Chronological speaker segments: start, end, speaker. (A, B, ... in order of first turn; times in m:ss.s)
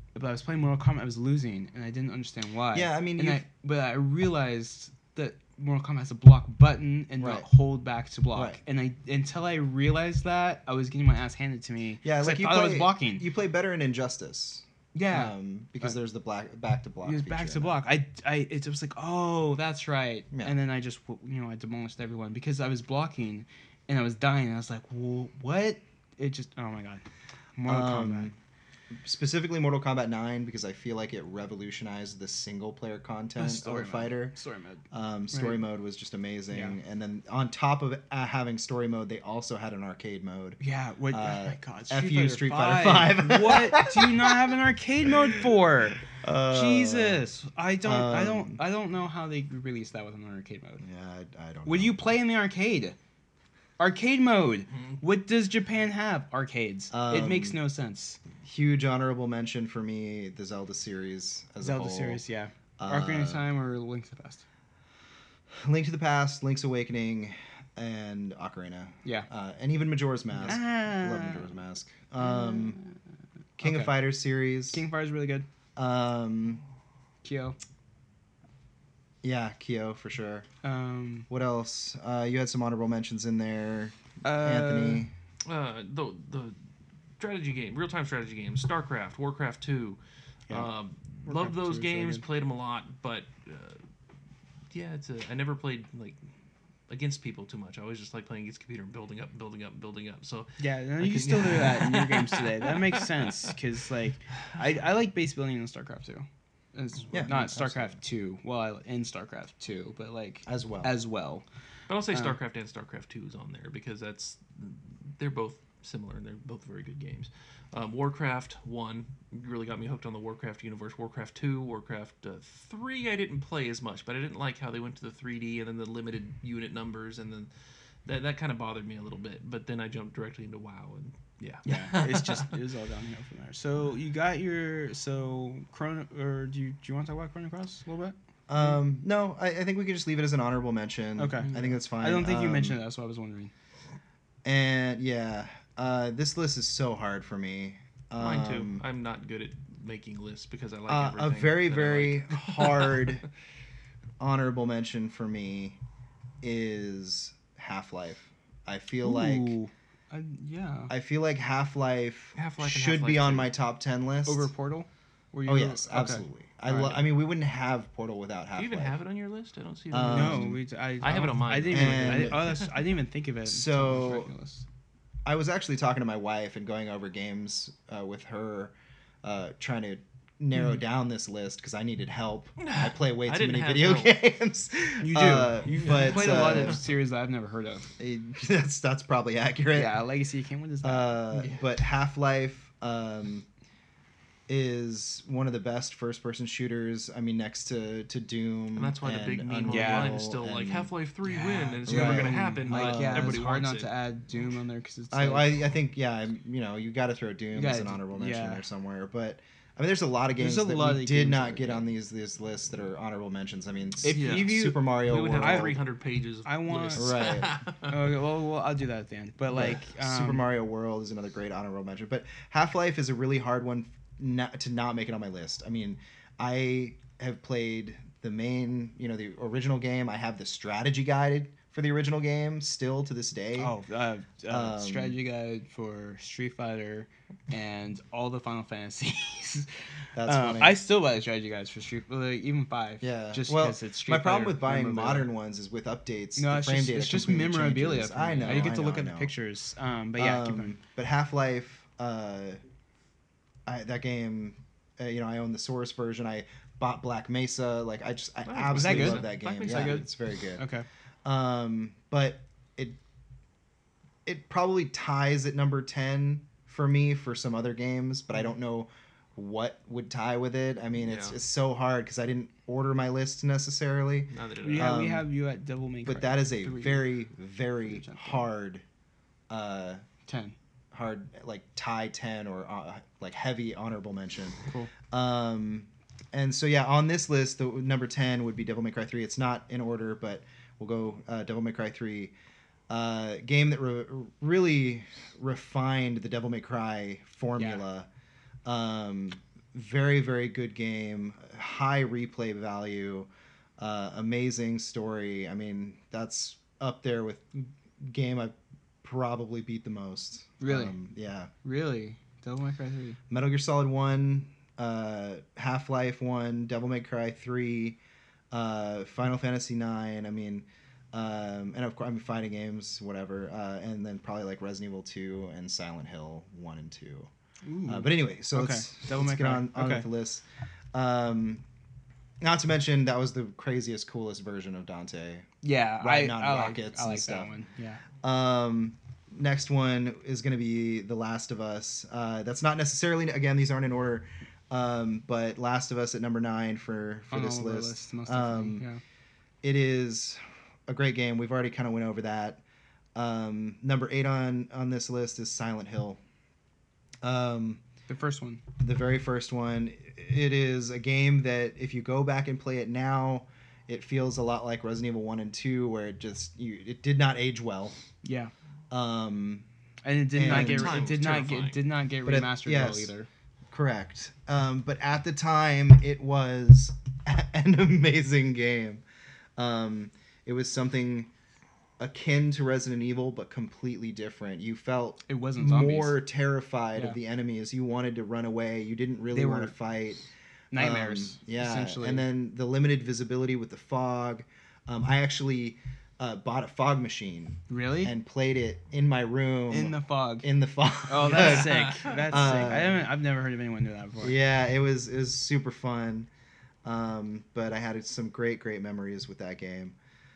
0:00.1-0:13.3 A
0:02.7-0:03.4 B
0:07.2-0:07.4 B
0:08.3-0:08.6 B
0:12.0-0:17.8 B
0:14.9-0:16.0 A
0:17.0-0:27.0 A
0:27.6-0:28.3 A
0:27.6-0:28.3 B
0:28.9-0:34.3 B
0:33.4-0:35.6 A
0:34.9-0:40.6 B
0:36.5-0:36.8 A
0:40.6-0:50.8 A
0:41.1-0:44.5 B
0:46.1-0:47.2 B
0:47.8-0:48.6 B
0:50.8-0:52.0 B
0:51.6-0:53.0 A
0:53.8-0:58.2 A
0:56.9-0:57.6 B
0:58.4-1:02.2 B
1:01.6-1:04.4 A
1:02.8-1:03.4 B
1:05.6-1:12.8 B
1:10.4-1:11.5 A
1:12.2-1:13.0 A
1:13.6-1:14.8 B
1:13.6-1:14.0 A
1:14.7-1:15.5 A
1:15.8-1:16.6 B
1:17.2-1:17.6 A
1:19.2-1:20.4 B
1:20.6-1:21.3 A
1:21.3-1:25.1 B
1:24.2-1:25.0 A
1:25.4-1:26.6 C
1:27.2-1:33.8 C
1:31.2-1:32.2 A
1:34.7-1:36.2 C
1:36.9-1:43.4 C
1:40.6-1:51.4 A
1:47.1-1:48.0 B
1:50.4-1:50.9 B
1:51.9-2:07.5 C
1:52.1-1:52.4 A
2:08.0-2:12.6 C
2:11.6-2:18.8 A
2:18.5-2:22.8 B
2:21.2-2:23.5 A
2:24.4-2:28.8 B
2:28.2-2:33.2 C
2:30.9-2:33.2 B
2:34.2-2:35.8 B
2:36.4-2:39.6 B
2:39.0-2:40.9 A
2:40.9-2:44.5 B
2:42.4-2:43.5 C
2:44.2-2:47.0 A
2:45.4-2:49.0 B
2:48.5-2:52.7 C
2:49.9-2:50.6 B
2:50.0-2:54.6 A
2:51.7-2:52.5 B
2:53.4-2:54.3 B
2:55.2-3:06.8 B
3:02.6-3:04.2 C
3:05.0-3:07.9 A
3:05.6-3:06.8 C
3:08.0-3:10.0 B
3:09.7-3:11.4 A
3:10.8-3:13.5 B
3:11.4-3:11.6 C
3:14.5-3:20.9 B
3:18.7-3:23.9 C
3:19.6-3:20.2 A
3:21.2-3:25.6 A
3:21.8-3:23.4 B
3:25.1-3:35.8 B
3:27.5-3:28.6 A
3:30.4-3:31.9 A
3:34.0-3:35.8 A
3:34.1-3:38.0 C
3:36.4-3:40.5 A
3:36.9-3:37.5 B
3:39.5-3:53.7 B
3:53.6-3:59.7 A
3:54.5-3:55.2 B
4:00.1-4:00.8 B
4:00.2-4:05.3 A
4:03.0-4:09.3 B
4:06.4-4:10.8 A
4:10.2-4:12.6 B
4:13.6-4:20.6 B
4:18.4-4:20.1 C
4:18.7-4:20.8 A
4:21.2-4:23.0 B
4:24.2-4:35.3 B
4:31.0-4:31.4 C
4:34.3-4:35.0 C
4:34.6-4:37.0 A
4:36.0-4:38.8 B
4:37.8-4:38.4 A
4:39.5-4:40.0 B
4:40.2-4:40.6 A
4:40.9-4:44.6 B
4:45.1-4:52.3 B
4:52.9-4:58.1 B
4:57.6-4:57.8 A
4:58.6-5:11.5 B
5:10.6-5:11.0 A
5:11.6-5:13.2 A
5:13.3-5:18.0 B
5:18.5-5:27.3 B
5:27.6-5:30.1 A
5:27.8-5:31.6 B
5:32.4-5:35.5 B
5:35.6-5:38.0 A
5:36.0-5:37.5 B
5:38.2-5:48.8 B
5:47.3-5:49.0 A
5:49.6-5:52.6 B
5:53.1-5:56.2 B
5:57.2-5:57.8 B
5:58.1-5:58.6 A
5:58.8-6:08.0 B
6:08.2-6:08.5 A
6:08.9-6:09.7 B
6:10.0-6:13.3 A
6:10.3-6:11.1 B
6:10.4-6:11.8 C
6:12.2-6:13.1 B
6:13.7-6:19.0 B
6:19.6-6:21.3 B
6:22.0-6:43.0 B
6:25.3-6:26.2 A
6:29.3-6:29.7 A
6:30.7-6:32.2 A
6:37.7-6:38.1 A
6:39.7-6:40.5 A
6:41.1-6:44.4 A
6:41.4-6:42.2 C
6:44.2-6:46.3 B
6:46.8-6:50.0 B